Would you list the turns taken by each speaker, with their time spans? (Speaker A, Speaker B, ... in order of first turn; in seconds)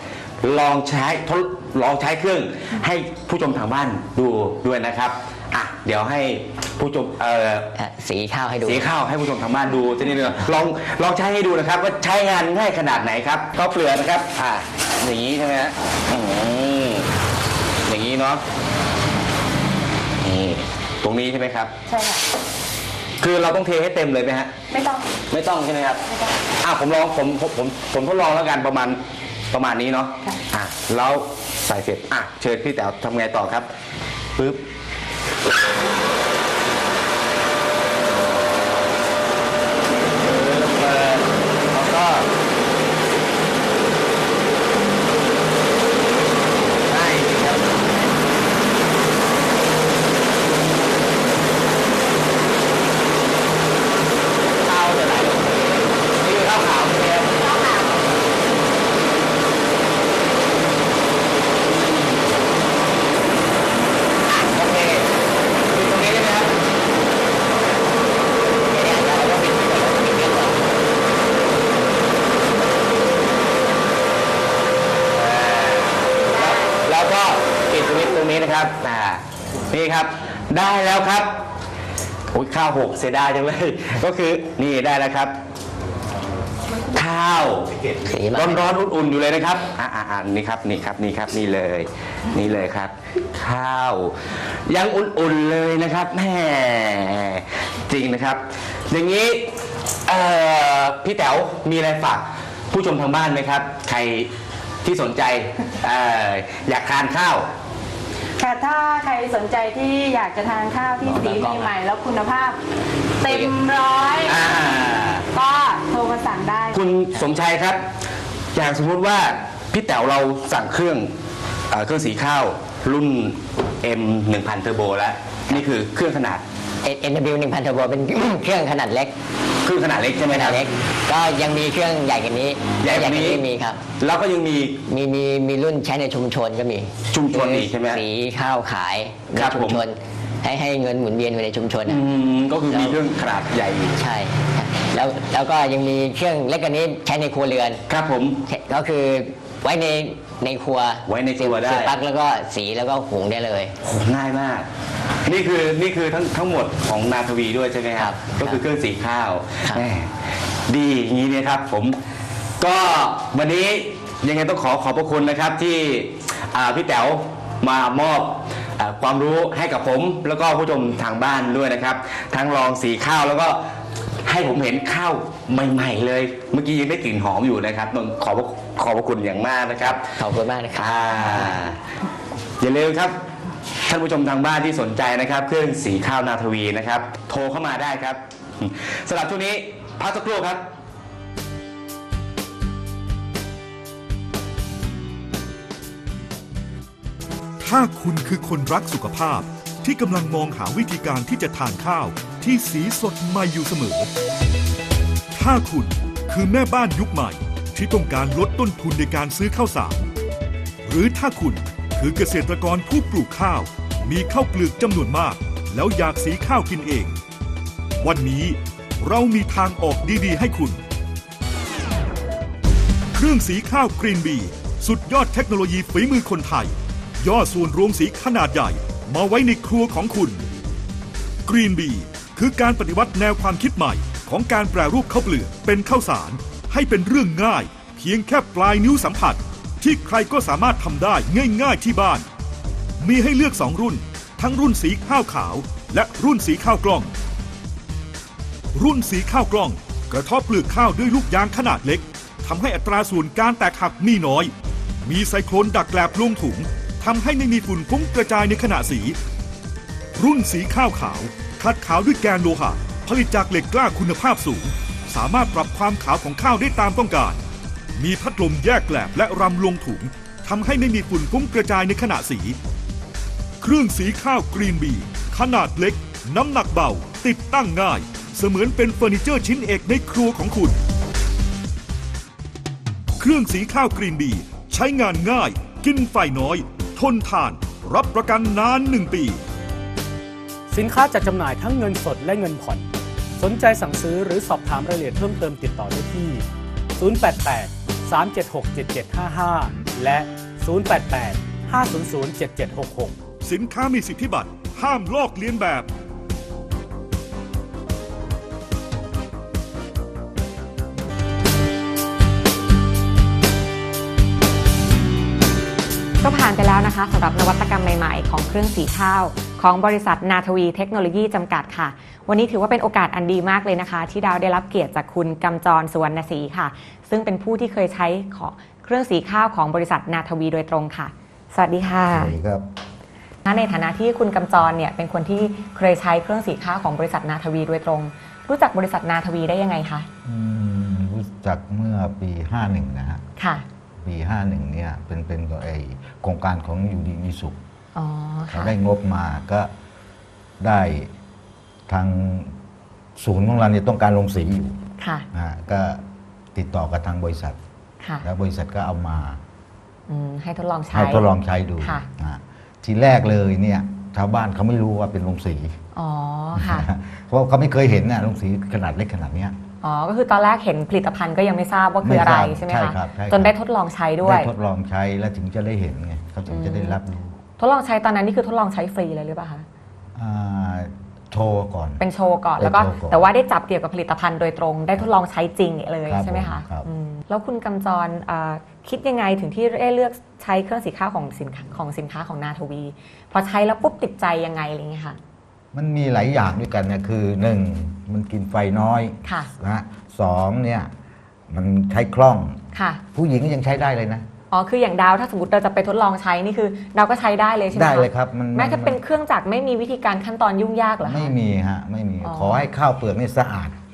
Speaker A: 0.4-7.7, 8.6-17.1, 17.9-18.4, 20.2-21.7, 23.2-24.5, 25.3-26.0, 26.6-29.0, 29.5-33.7, 40.2-42.3, 46.9-47.8, 54.5-57.5, 64.3-65.0, 65.7-66.5, 69.2-69.7, 75.1-81.3, 82.3-85.3, 86.9-87.8, 88.3-99.5, 100.0-104.3, 104.8-107.5, 114.2-115.3, 116.7-117.8, 118.5-121.1, 121.7-126.4, 129.6-130.6, 132.8-133.4, 134.0-134.8, 137.1-138.0, 139.3-139.8, 141.8-143.9, 147.9-148.4, 151.1-151.9, 153.8-154.7, 155.2-161.9, 162.6-173.6, 174.2-180.0, 180.7-181.8, 182.6-183.2, 183.9-190.6
Speaker B: 7.8-8.9, 68.7-70.5, 88.1-88.7, 111.0-111.7, 113.3-113.5, 126.8-129.1, 130.3-133.8, 134.9-142.0, 142.7-143.0, 144.0-147.8, 148.5-153.8, 158.0-158.6, 180.1-180.9
Speaker C: 21.9-22.2, 24.7-25.2, 108.4-112.6, 113.2-114.4, 115.3-116.8
Speaker D: 197.6-204.1, 205.3-210.1, 210.8-217.2, 218.0-220.8, 223.1-230.4, 231.4-242.2, 243.0-247.1, 248.7-254.5, 255.0-259.1, 260.1-267.4, 268.0-272.6, 273.6-280.8, 283.2-289.4, 303.4-305.9
Speaker E: 290.7-296.4, 297.0-303.2
Speaker F: 316.2-332.3, 333.4-340.1, 343.4-343.6, 347.9-348.7, 355.0-355.2, 360.1-361.3, 365.9-366.9, 369.8-374.5, 376.5-377.0, 377.6-379.6, 382.0-395.2, 399.2-399.5, 402.7-403.0, 404.5-411.3, 412.2-412.7
Speaker G: 332.1-332.6, 340.2-343.2, 344.0-347.6, 348.5-349.7, 350.6-351.1, 351.9-352.5, 353.2-354.8, 355.3-356.0, 356.5-357.6, 358.2-359.4, 360.9-365.8, 366.6-369.6, 372.0-373.5, 374.2-377.4, 380.1-382.0, 382.6-383.2, 386.1-386.9, 395.7-400.9, 401.5-402.6, 403.1-404.2, 407.7-409.0, 411.0-413.8